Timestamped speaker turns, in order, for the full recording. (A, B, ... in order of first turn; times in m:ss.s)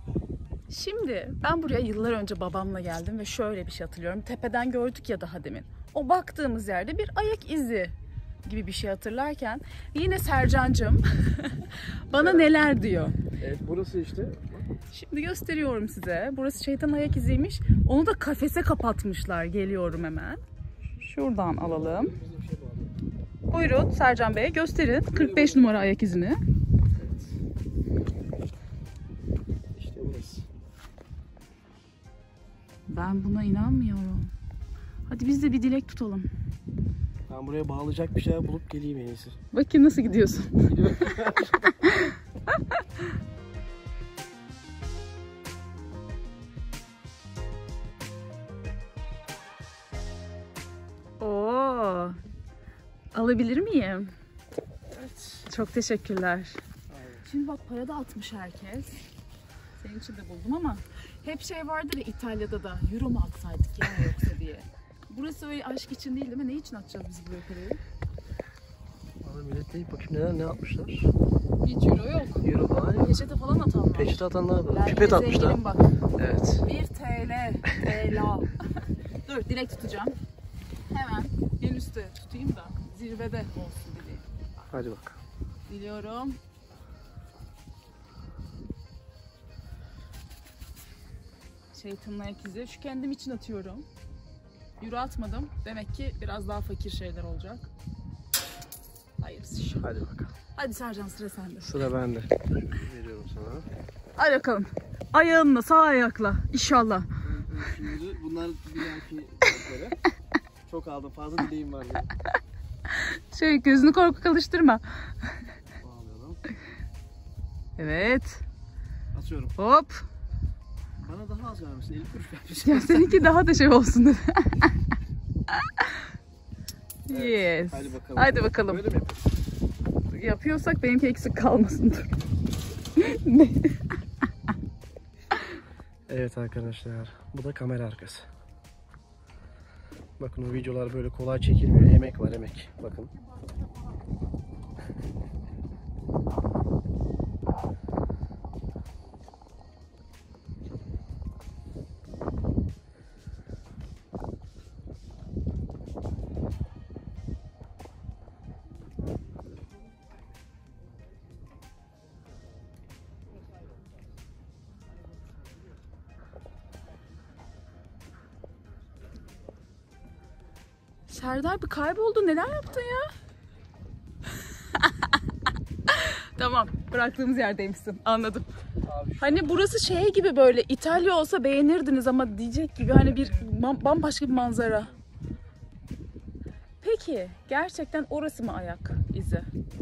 0:00.7-0:07.9 A
0:08.4-0:13.2 A
0:12.1-0:12.6 B
0:13.4-0:14.6 B
0:14.9-0:20.4 A
0:21.0-0:22.1 A
0:21.6-0:22.9 B
0:23.5-0:26.4 A
0:25.1-0:25.7 B
0:27.0-0:27.3 B
0:29.7-0:30.5 B
0:32.9-0:34.3 A
0:35.1-0:36.3 A
0:37.3-0:39.4 B
0:39.5-0:43.0 A
0:40.7-0:41.8 B
0:51.2-0:52.2 A
0:53.1-0:54.2 A
0:54.9-0:55.4 B
0:55.4-0:56.6 A
0:56.9-0:57.3 B
0:57.2-0:59.0 A
0:59.8-1:07.8 A
1:09.2-1:11.1 B
1:11.6-1:16.0 A
1:12.4-1:13.2 B
1:14.0-1:15.6 B
1:16.2-1:16.7 B
1:16.6-1:20.2 A
1:20.9-1:24.3 A
1:24.7-1:25.2 B
1:25.7-1:26.4 A
1:31.7-1:33.9 A
1:34.8-1:37.7 A
1:39.2-1:39.9 A
1:39.8-1:40.3 B
1:40.6-1:41.8 A
1:41.6-1:43.7 B
1:44.2-1:47.1 A
1:47.2-1:50.0 B
1:50.7-1:52.1 B
1:52.9-1:55.4 A
1:53.7-1:54.0 B
1:55.8-1:56.4 B
1:57.8-1:58.4 A
1:59.1-1:59.6 B
1:59.6-2:00.0 A
2:01.0-2:03.3 B
2:02.6-2:04.8 A
2:05.5-2:06.1 A
2:07.1-2:08.9 A
2:07.1-2:09.3 B
2:10.1-2:12.1 A
2:13.0-2:14.0 A
2:16.1-2:18.3 B
2:20.2-2:23.1 B
2:51.1-2:53.1 A
2:54.5-2:55.2 A
2:55.9-2:58.5 A
2:58.8-2:59.6 B
2:59.2-3:04.9 A
3:06.8-3:09.5 A